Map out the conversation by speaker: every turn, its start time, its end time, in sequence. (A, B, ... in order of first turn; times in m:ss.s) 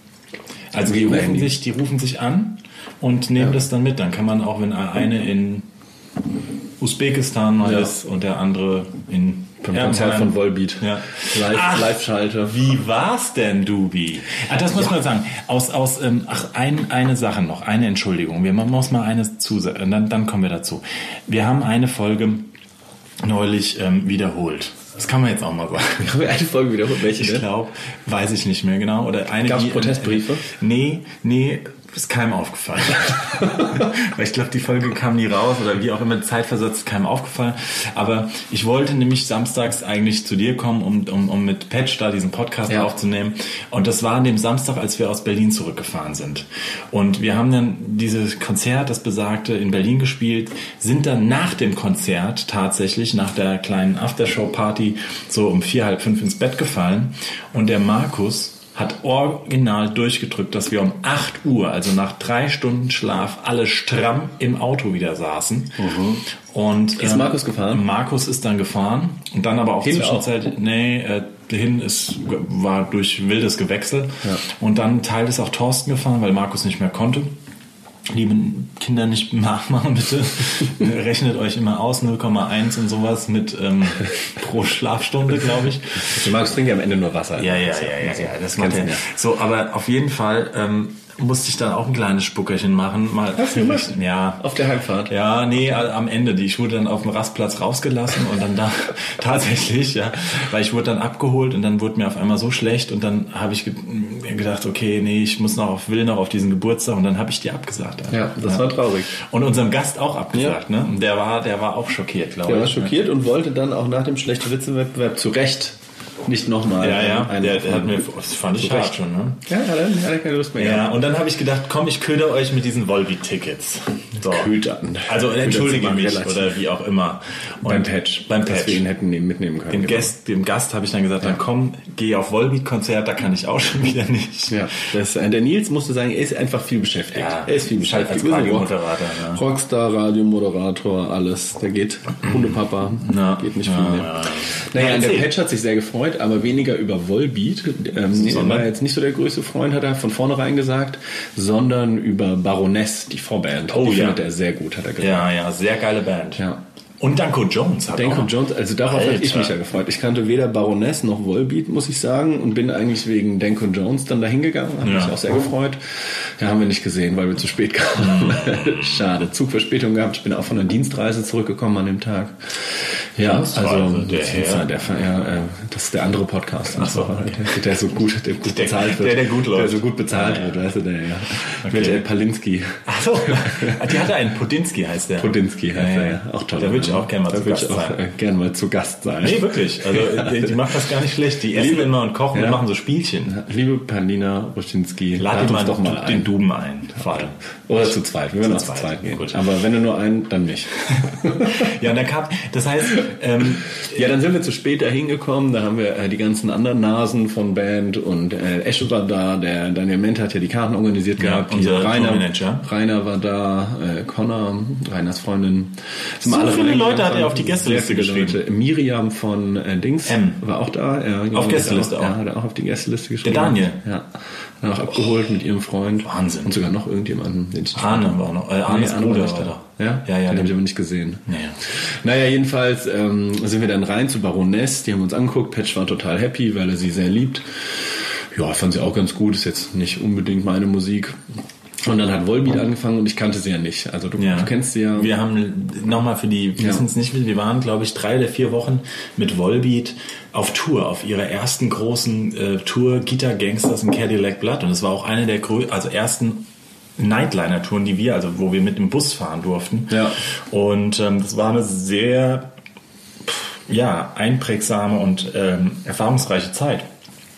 0:00.7-0:05.7 A
0:00.8-0:01.5 B
0:06.8-0:22.5 A
0:07.6-0:07.9 B
0:09.6-0:12.6 B
0:23.2-0:26.1 A
0:26.0-0:27.4 B
0:27.1-1:17.3 A
0:29.4-0:30.4 B
1:05.8-1:06.2 B
1:07.0-1:07.8 B
1:09.8-1:10.2 B
1:18.1-1:26.3 A
1:26.0-1:29.0 B
1:27.4-1:34.5 A
1:33.4-1:35.1 B
1:35.0-1:53.0 A
1:48.1-1:49.1 B
1:52.4-1:58.0 B
1:56.8-1:59.4 A
1:58.6-2:00.9 B
2:00.6-2:08.8 A
2:04.2-2:06.6 B
2:07.6-2:10.1 B
2:09.7-2:14.7 A
2:14.5-2:35.3 B
2:17.1-2:19.4 A
2:23.0-2:25.3 A
2:28.1-2:28.7 A
2:33.7-2:34.2 A
2:35.0-2:36.4 A
2:37.0-2:39.5 A
2:37.9-3:03.8 B
2:44.8-2:45.3 A
2:48.0-2:49.1 A
2:53.2-2:55.4 A
2:56.7-2:57.7 A
2:58.4-3:00.7 A
3:01.6-3:02.0 A
3:02.8-3:08.0 A
3:05.2-3:10.6 B
3:09.2-3:13.4 A
3:11.5-3:12.6 B
3:13.2-3:16.3 B
3:15.2-3:19.5 A
3:17.7-3:21.7 B
3:21.1-3:23.9 A
3:23.8-3:44.1 B
3:31.2-3:32.6 A
3:36.2-3:38.4 A
3:40.0-3:40.4 A
3:41.3-3:42.2 A
3:43.2-3:43.8 A
3:44.6-4:01.2 B
3:46.0-3:46.6 A
3:47.7-3:50.6 A
3:51.3-3:51.6 A
4:01.8-4:05.1 B
4:04.2-4:22.5 A
4:19.9-4:20.2 B
4:23.2-4:26.9 A